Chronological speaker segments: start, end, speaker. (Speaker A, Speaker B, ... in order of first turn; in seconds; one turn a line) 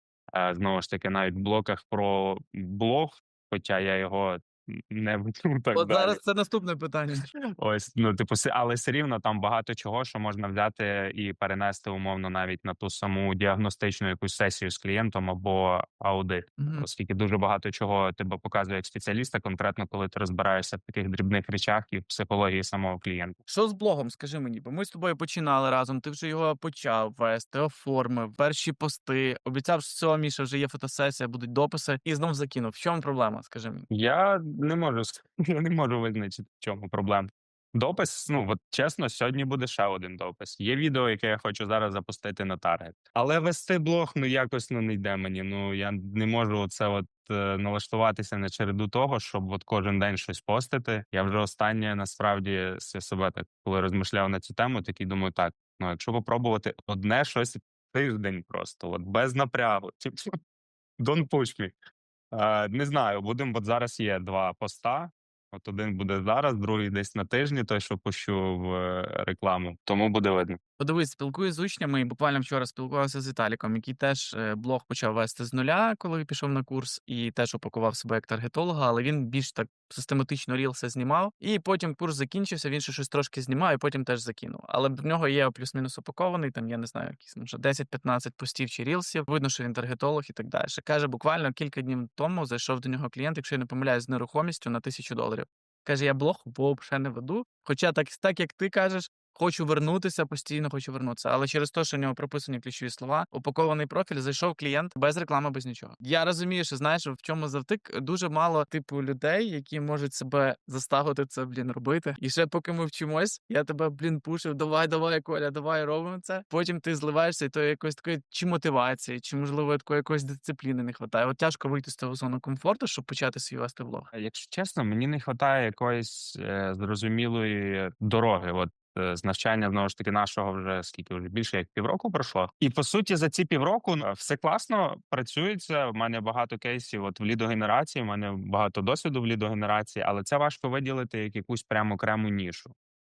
Speaker A: 0.3-6.2
Speaker B: 5.7-7.2
Speaker A: 7.6-23.4
Speaker B: 16.6-16.9
Speaker B: 23.5-33.9
Speaker A: 33.9-60.3
Speaker A: 61.0-61.7
Speaker A: 62.3-70.6
Speaker B: 70.8-124.1
Speaker A: 124.1-142.7